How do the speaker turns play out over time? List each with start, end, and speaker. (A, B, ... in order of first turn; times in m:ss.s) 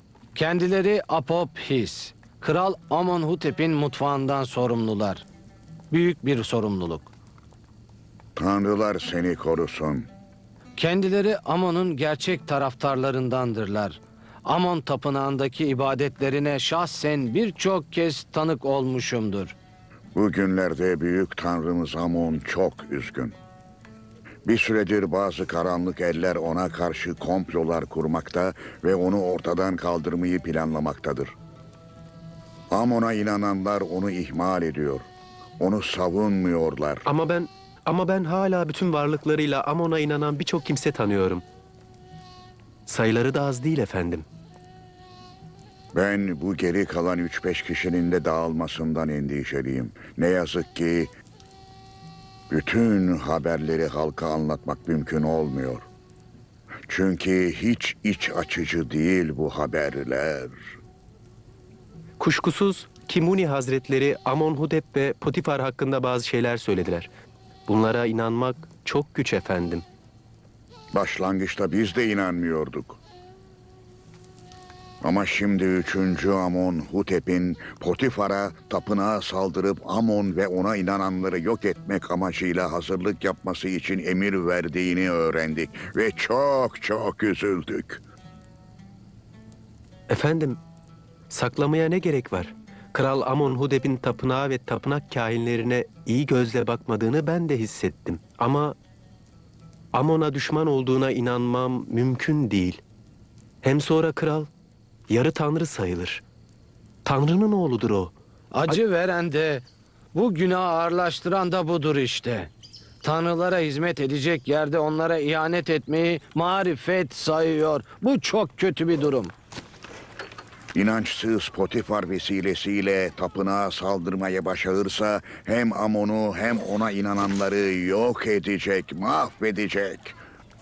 0:00.4-0:05.3 A
0:05.9-0:07.1 A
0:08.4-0:10.1 B
0:10.8-0:19.6 A
0:20.2-0:23.3 B
0:24.4-0:31.3 B
0:32.7-0:35.1 B
0:35.6-0:37.0 B
0:37.0-0:41.4 C
0:42.9-0:44.3 C
0:45.9-0:51.1 B
0:52.5-0:55.9 B
0:56.9-1:00.6 B
1:02.2-1:07.1 C
1:07.7-1:09.8 C
1:10.9-1:13.0 B
1:15.0-1:28.0 B
1:30.1-1:30.6 C
1:31.3-1:38.8 C
1:39.9-1:42.8 C
1:43.6-1:44.5 C
1:45.1-1:46.2 C
1:47.0-1:48.2 C
1:48.5-1:52.5 A
1:53.0-1:59.3 A
2:00.8-2:10.2 B